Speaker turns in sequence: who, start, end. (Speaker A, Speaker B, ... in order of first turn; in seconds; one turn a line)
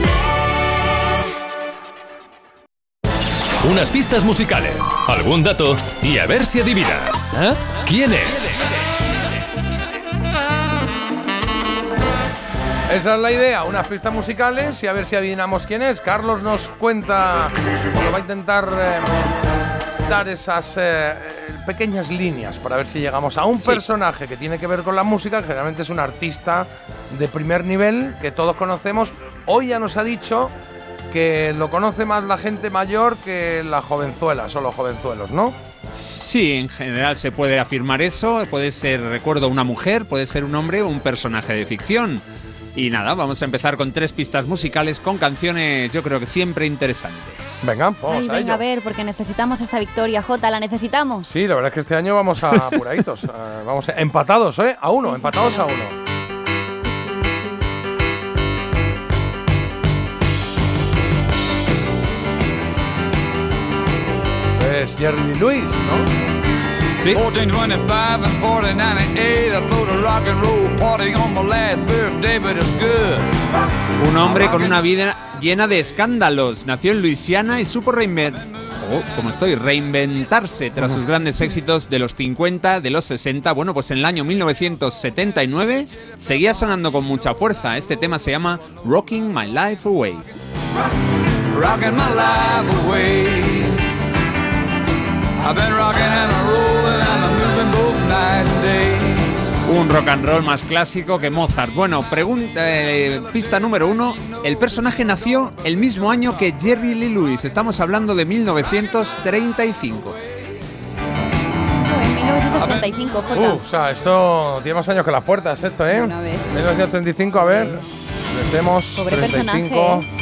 Speaker A: 3.6-8.6
Speaker B: 12.9-19.2
Speaker B: 20.0-30.5
Speaker C: 23.6-23.9
Speaker B: 31.1-35.6
Speaker C: 36.2-47.8
Speaker B: 47.6-48.6
Speaker D: 48.1-51.3
Speaker B: 51.2-56.0
Speaker C: 52.4-52.8
Speaker D: 55.0-55.7
Speaker D: 56.9-57.6
Speaker B: 64.5-66.1
Speaker E: 67.1-73.5
Speaker C: 74.0-90.3
Speaker E: 91.5-93.8
Speaker E: 95.4-99.4
Speaker C: 99.7-110.2
Speaker D: 111.8-113.6
Speaker B: 112.6-120.1
Speaker D: 115.9-116.5
Speaker D: 119.0-120.1